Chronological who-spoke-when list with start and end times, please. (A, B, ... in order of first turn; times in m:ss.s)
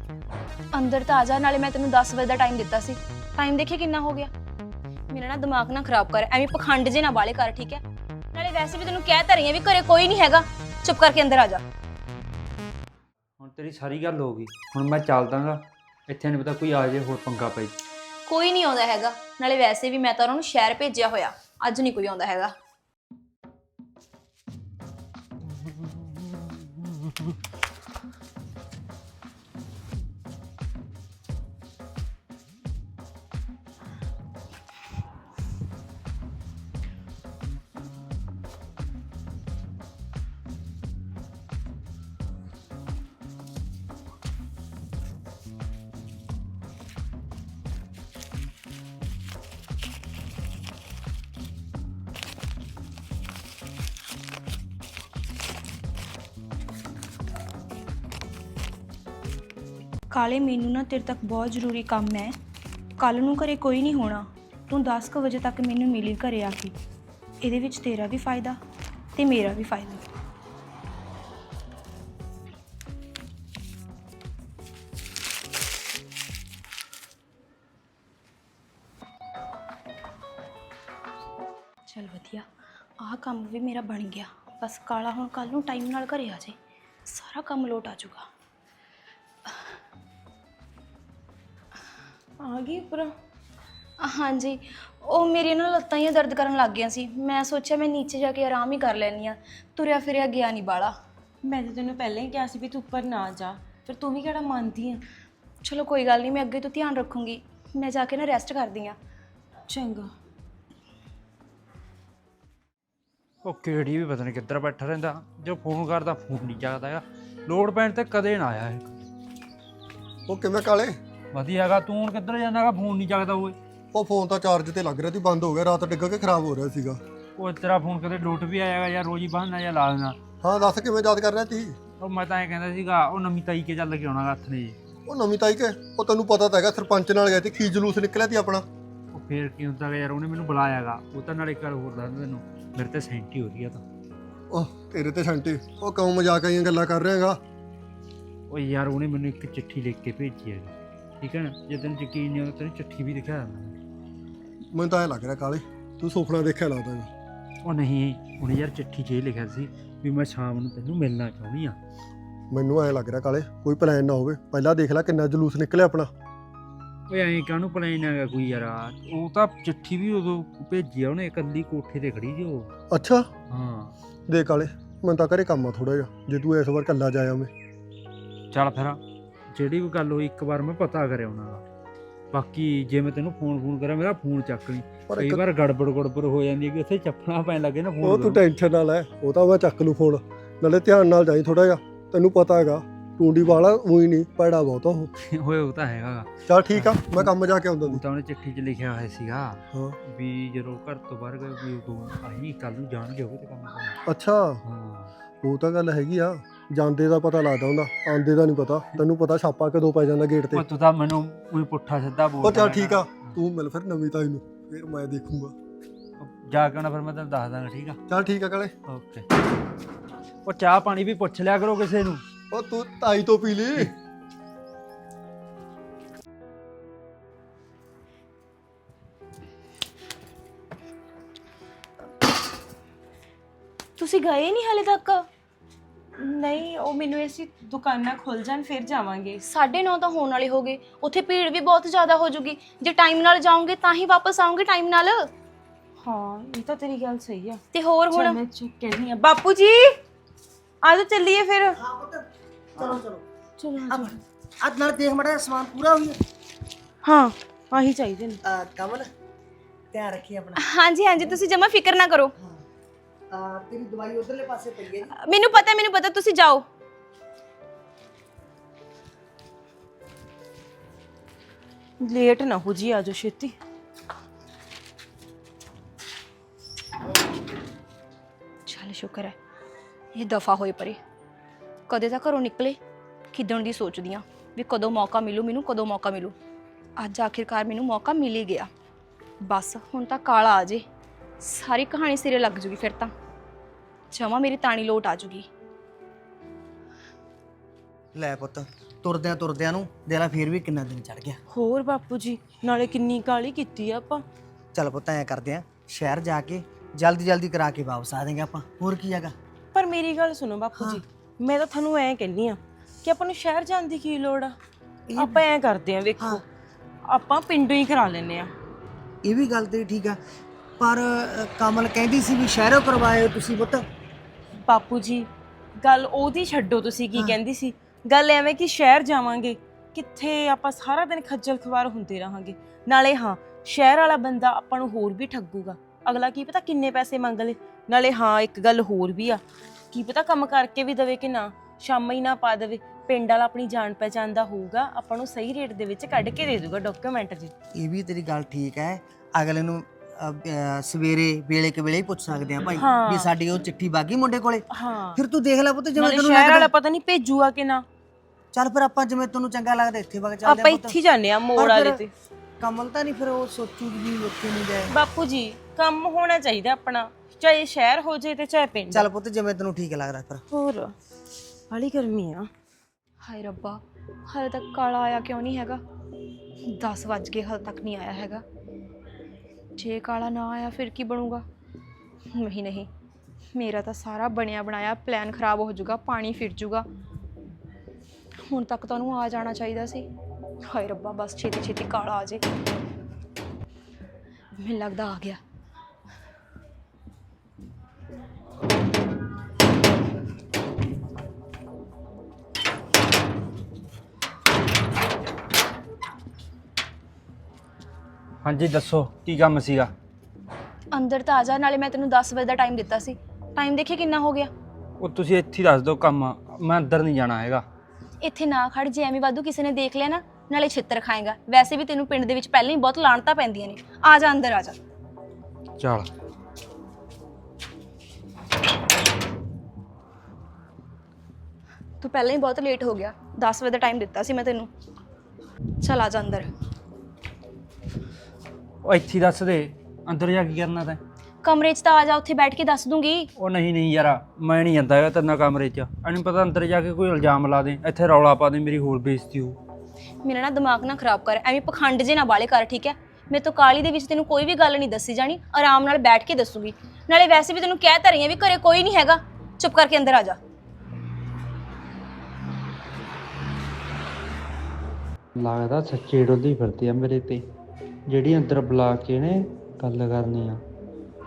0:00.7-0:04.3 A
0:05.1-0:07.8 A
0:08.3-0:11.6 A
0:13.4-0:17.7 B
0:18.3-0:22.5 A
1:00.1-1:02.3 A
1:03.0-1:06.7 A
1:07.4-1:08.6 A
1:09.2-1:10.0 A
1:21.9-1:22.4 A
1:23.0-1:26.5 A
1:27.1-1:28.3 A
1:32.4-1:33.1 C
1:34.0-1:40.9 A
1:41.4-1:45.0 C
1:45.6-1:48.9 A
1:49.7-1:50.1 C
1:53.4-1:59.1 B
2:00.3-2:01.0 D
2:01.3-2:03.6 B
2:03.9-2:07.0 D
2:07.4-2:10.2 B
2:10.4-2:11.8 D
2:12.0-2:14.8 B
2:15.0-2:18.6 D
2:19.1-2:23.8 B
2:24.5-2:27.4 D
2:28.5-2:33.7 B
2:34.7-2:37.1 D
2:37.6-2:41.8 B
2:42.5-2:46.1 D
2:47.1-2:52.7 B
2:52.9-2:53.3 D
2:53.5-2:53.9 B
2:54.3-2:57.5 D
2:58.5-2:59.0 B
2:59.5-3:01.6 B
3:02.3-3:08.4 B
3:05.1-3:05.4 D
3:08.0-3:15.1 D
3:15.3-3:17.3 B
3:16.5-3:18.0 D
3:17.9-3:24.0 B
3:19.7-3:20.0 D
3:24.0-3:24.6 D
3:24.6-3:25.1 B
3:25.4-3:30.6 D
3:30.5-3:33.4 B
3:32.4-3:35.5 D
3:36.2-3:38.0 B
3:38.1-3:38.7 D
3:38.9-3:39.2 B
3:40.4-3:42.2 B
3:42.5-3:43.9 D
3:54.0-3:55.3 A
3:56.2-3:59.4 C
3:59.4-4:05.3 A
4:06.0-4:10.0 C
4:07.7-4:08.4 A
4:10.8-4:11.8 C
4:11.7-4:13.2 E
4:12.8-4:13.0 C
4:13.6-4:14.2 C
4:13.9-4:16.2 E
4:17.0-4:18.4 C
4:18.4-4:19.1 E
4:19.9-4:20.6 E
4:20.6-4:22.3 A
4:22.4-4:22.6 E
4:23.3-4:25.1 E
4:25.1-4:26.6 A
4:32.0-4:33.5 C
4:38.7-4:39.4 A
4:40.1-4:41.0 A
4:41.9-4:42.8 A
4:43.3-4:46.3 A
4:47.0-4:48.7 A
4:49.4-4:50.8 A
4:51.4-4:53.1 A
4:54.1-4:55.5 A
4:58.1-5:01.4 E
5:01.5-5:04.2 C
5:04.7-5:09.3 E
5:09.7-5:14.5 C
5:10.8-5:11.0 E
5:15.1-5:15.4 E
5:15.2-5:16.4 C
5:17.0-5:18.5 C
5:19.2-5:20.2 E
5:20.8-5:23.8 E
5:24.6-5:47.5 C
5:47.7-5:56.7 E
5:52.7-5:53.3 C
5:54.7-5:55.2 C
5:56.0-5:57.8 C
5:58.5-6:01.0 E
6:00.4-6:02.1 C
6:01.5-6:02.0 E
6:02.6-6:04.9 E
6:04.9-6:09.1 C
6:08.9-6:10.4 E
6:10.5-6:10.9 C
6:11.7-6:12.5 C
6:13.2-6:15.8 A
6:16.7-6:18.4 A
6:19.8-6:21.4 A
6:22.3-6:22.9 A
6:23.5-6:26.8 A
6:28.5-6:30.0 A
6:30.7-6:32.4 A
6:34.6-6:35.4 A
6:48.4-6:49.9 B
6:50.9-6:54.5 A
6:55.0-6:57.6 B
6:58.2-7:04.8 A
7:05.8-7:06.1 B
7:12.0-7:14.7 A
7:15.8-7:16.5 A
7:18.8-7:21.0 B
7:21.4-7:23.3 A
7:23.4-7:29.6 B
7:30.2-7:40.4 A
7:45.4-7:47.4 B
7:48.1-7:50.6 B